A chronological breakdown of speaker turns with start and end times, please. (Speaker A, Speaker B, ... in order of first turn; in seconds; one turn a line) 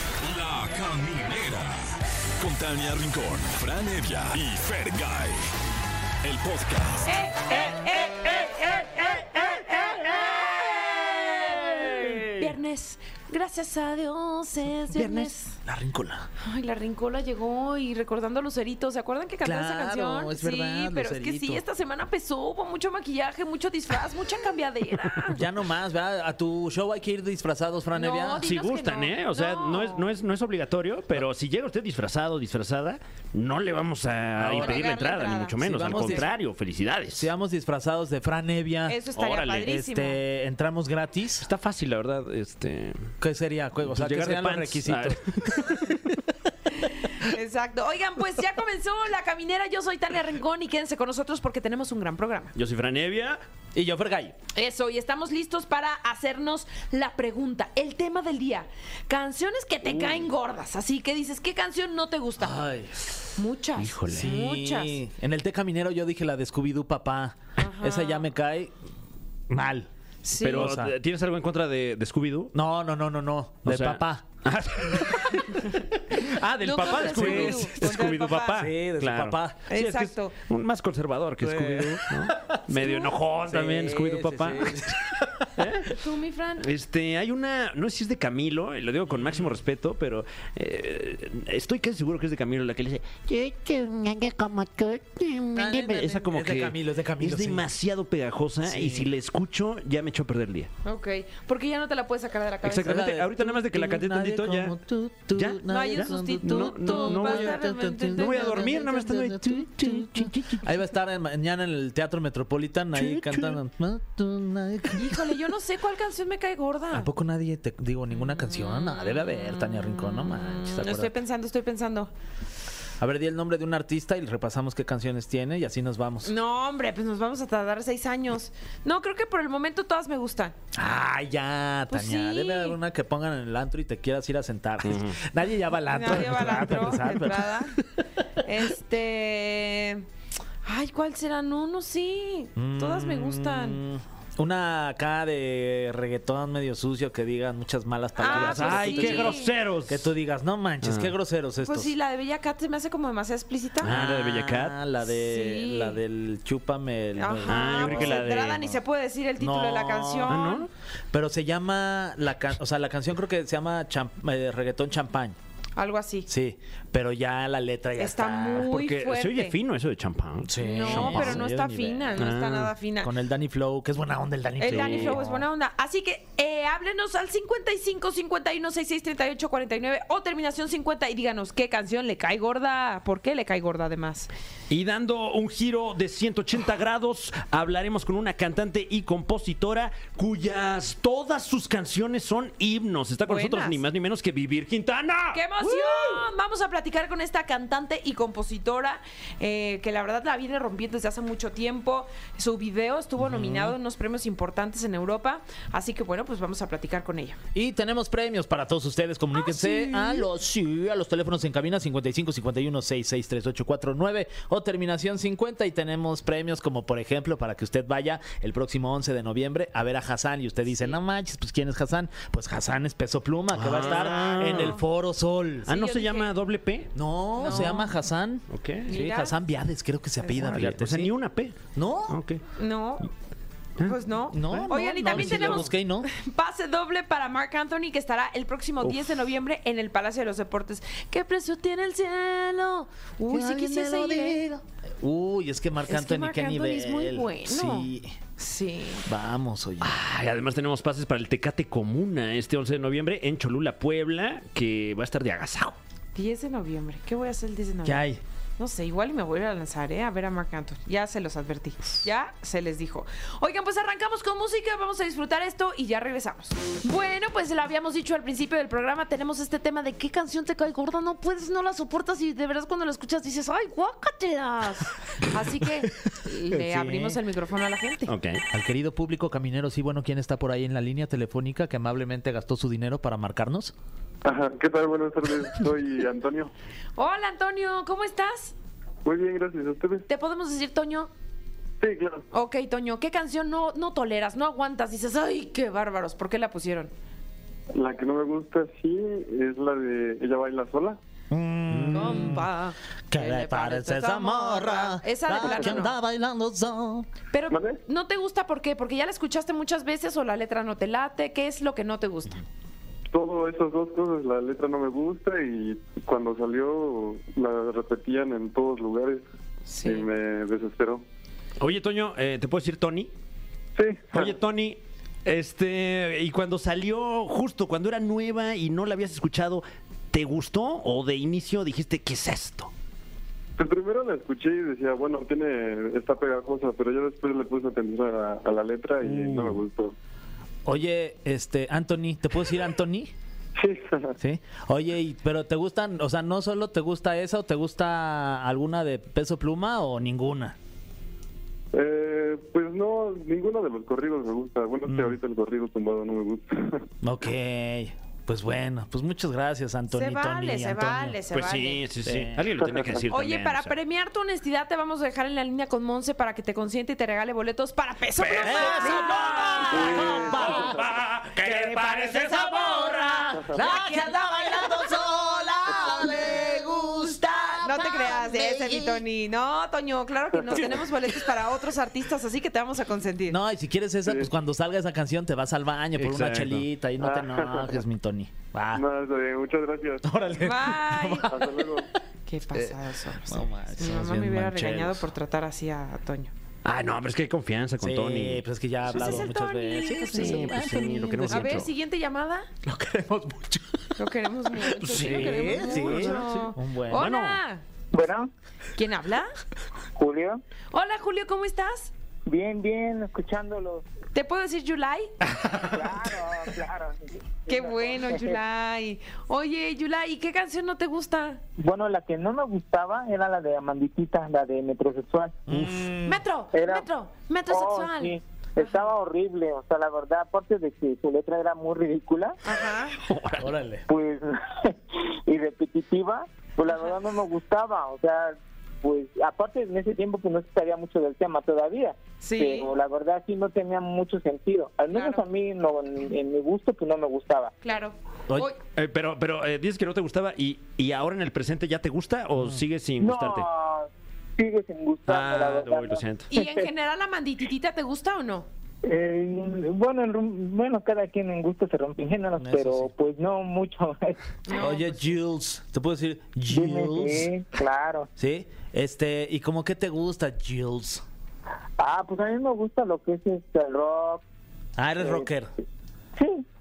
Speaker A: 0.2-1.9
Speaker A: 2.4-5.4
Speaker A: 6.2-7.1
Speaker B: 7.1-15.5
Speaker C: 7.5-12.5
Speaker C: 14.9-16.3
Speaker B: 16.4-25.4
Speaker C: 19.4-21.6
Speaker C: 25.4-28.5
Speaker B: 27.9-30.1
Speaker D: 28.4-37.3
Speaker C: 34.4-35.0
Speaker B: 34.5-36.3
Speaker C: 35.6-36.3
Speaker C: 37.2-41.5
Speaker B: 38.9-40.2
Speaker D: 39.2-39.6
Speaker D: 41.4-43.0
Speaker C: 43.2-46.2
Speaker D: 43.9-46.0
Speaker B: 47.2-52.5
Speaker D: 52.5-53.4
Speaker C: 53.8-54.4
Speaker B: 54.5-62.6
Speaker C: 62.4-63.1
Speaker B: 63.4-65.0
Speaker D: 63.8-64.3
Speaker C: 64.1-68.7
Speaker B: 67.6-68.2
Speaker C: 69.5-69.9
Speaker B: 70.2-70.7
Speaker D: 70.4-72.5
Speaker C: 70.4-70.9
Speaker C: 72.5-74.4
Speaker D: 73.7-75.5
Speaker C: 74.9-75.6
Speaker C: 76.2-77.9
Speaker B: 76.6-78.6
Speaker D: 76.7-85.0
Speaker C: 78.5-79.7
Speaker B: 79.7-80.3
Speaker C: 81.4-85.7
Speaker D: 85.6-85.9
Speaker B: 86.0-86.7
Speaker D: 86.6-100.7
Speaker C: 95.5-97.7
Speaker C: 98.6-99.1
Speaker B: 100.8-103.1
Speaker D: 102.6-104.7
Speaker C: 102.8-115.4
Speaker D: 105.3-110.7
Speaker B: 105.7-109.0
Speaker D: 113.0-113.6
Speaker B: 114.9-117.1
Speaker C: 116.9-121.1
Speaker B: 118.7-122.1
Speaker C: 123.0-126.3
Speaker B: 126.2-130.6
Speaker C: 130.7-137.8
Speaker B: 131.9-132.8
Speaker D: 134.8-135.2
Speaker B: 135.9-137.8
Speaker B: 138.4-140.1
Speaker B: 140.7-143.8
Speaker C: 142.6-151.9
Speaker B: 148.2-149.5
Speaker D: 148.3-150.1
Speaker D: 150.8-151.1
Speaker B: 151.7-153.9
Speaker D: 153.8-154.8
Speaker C: 153.8-158.4
Speaker B: 155.1-156.0
Speaker B: 157.2-160.7
Speaker D: 157.4-158.7
Speaker C: 159.4-160.6
Speaker D: 160.3-160.7
Speaker C: 161.1-165.4
Speaker B: 165.8-166.3
Speaker C: 166.3-168.7
Speaker B: 168.0-169.6
Speaker D: 168.6-172.7
Speaker C: 170.5-172.2
Speaker B: 170.6-173.1
Speaker C: 173.0-175.4
Speaker B: 174.6-184.3
Speaker D: 174.7-175.2
Speaker D: 184.7-196.2
Speaker B: 193.3-193.8
Speaker B: 195.3-207.4
Speaker C: 203.2-203.7
Speaker C: 207.5-225.7
Speaker B: 209.3-210.3
Speaker D: 223.5-224.8
Speaker B: 223.8-224.8
Speaker D: 225.7-226.9
Speaker B: 225.7-226.3
Speaker C: 226.9-231.1
Speaker B: 227.4-227.9
Speaker D: 228.5-228.9
Speaker B: 228.9-229.4
Speaker D: 230.4-231.6
Speaker C: 231.7-232.2
Speaker D: 232.1-232.4
Speaker B: 232.6-233.1
Speaker B: 233.8-244.4
Speaker C: 234.3-236.1
Speaker D: 234.5-235.6
Speaker D: 238.8-239.2
Speaker C: 243.3-248.2
Speaker B: 245.9-249.1
Speaker C: 249.1-249.9
Speaker D: 249.8-255.8
Speaker B: 256.1-258.0
Speaker C: 257.9-258.2
Speaker B: 258.6-278.1
Speaker C: 276.5-277.2
Speaker D: 278.1-278.4
Speaker C: 278.5-283.7
Speaker E: 284.2-286.5
Speaker B: 287.0-288.5
Speaker E: 289.1-290.1
Speaker B: 290.1-291.1
Speaker E: 291.8-292.3
Speaker B: 292.3-296.9
Speaker E: 297.8-301.0
Speaker C: 301.3-302.5
Speaker D: 301.7-302.0
Speaker B: 301.9-305.9
Speaker C: 303.1-307.1
Speaker B: 307.3-312.4
Speaker E: 307.5-307.8
Speaker E: 313.1-319.2
Speaker B: 319.7-320.1
Speaker E: 319.8-321.0
Speaker D: 321.6-323.1
Speaker E: 323.8-324.4
Speaker D: 324.1-332.7
Speaker E: 333.6-339.9
Speaker C: 339.0-339.6
Speaker C: 340.6-343.1
Speaker E: 343.6-344.1
Speaker C: 344.2-350.6
Speaker E: 351.7-356.8
Speaker C: 354.9-355.2
Speaker C: 357.0-361.2
Speaker B: 359.9-361.8
Speaker D: 361.3-363.8
Speaker C: 362.0-362.9
Speaker B: 363.1-370.7
Speaker D: 368.2-373.3
Speaker C: 368.4-379.0
Speaker E: 369.7-370.8
Speaker B: 371.7-372.3
Speaker B: 373.5-375.1
Speaker B: 375.7-376.6
Speaker B: 377.6-383.4
Speaker C: 380.6-380.9
Speaker C: 383.3-388.9
Speaker D: 386.0-386.6
Speaker E: 387.0-387.8
Speaker E: 388.7-390.1
Speaker C: 390.1-391.6
Speaker B: 390.4-391.3
Speaker E: 391.3-391.9
Speaker B: 392.3-396.3
Speaker C: 393.3-395.1
Speaker D: 396.6-399.3
Speaker C: 397.8-401.6
Speaker B: 398.9-402.5
Speaker D: 400.1-401.7
Speaker C: 402.7-404.1
Speaker B: 404.0-407.6
Speaker C: 404.7-407.1
Speaker D: 404.8-407.4
Speaker F: 407.9-408.3
Speaker B: 408.8-409.3
Speaker F: 410.0-410.4
Speaker B: 410.7-411.9
Speaker F: 412.3-413.9
Speaker B: 414.1-415.1
Speaker F: 415.6-418.4
Speaker B: 417.5-421.4
Speaker F: 421.6-425.4
Speaker C: 425.5-426.2
Speaker B: 426.1-428.8
Speaker F: 426.5-426.9
Speaker F: 427.5-432.4
Speaker B: 432.4-433.0
Speaker D: 433.0-433.5
Speaker C: 433.4-433.9
Speaker F: 433.9-447.5
Speaker B: 442.2-442.7
Speaker B: 444.9-445.2
Speaker B: 447.6-448.6
Speaker D: 448.8-453.5
Speaker F: 453.0-456.7
Speaker D: 455.1-456.3
Speaker B: 456.3-458.5
Speaker F: 458.8-464.2
Speaker C: 462.4-462.9
Speaker B: 464.5-465.0
Speaker C: 464.6-467.3
Speaker F: 466.5-468.1
Speaker C: 468.2-471.0
Speaker F: 471.8-474.2
Speaker C: 474.8-475.5
Speaker F: 475.0-475.3
Speaker F: 476.2-476.4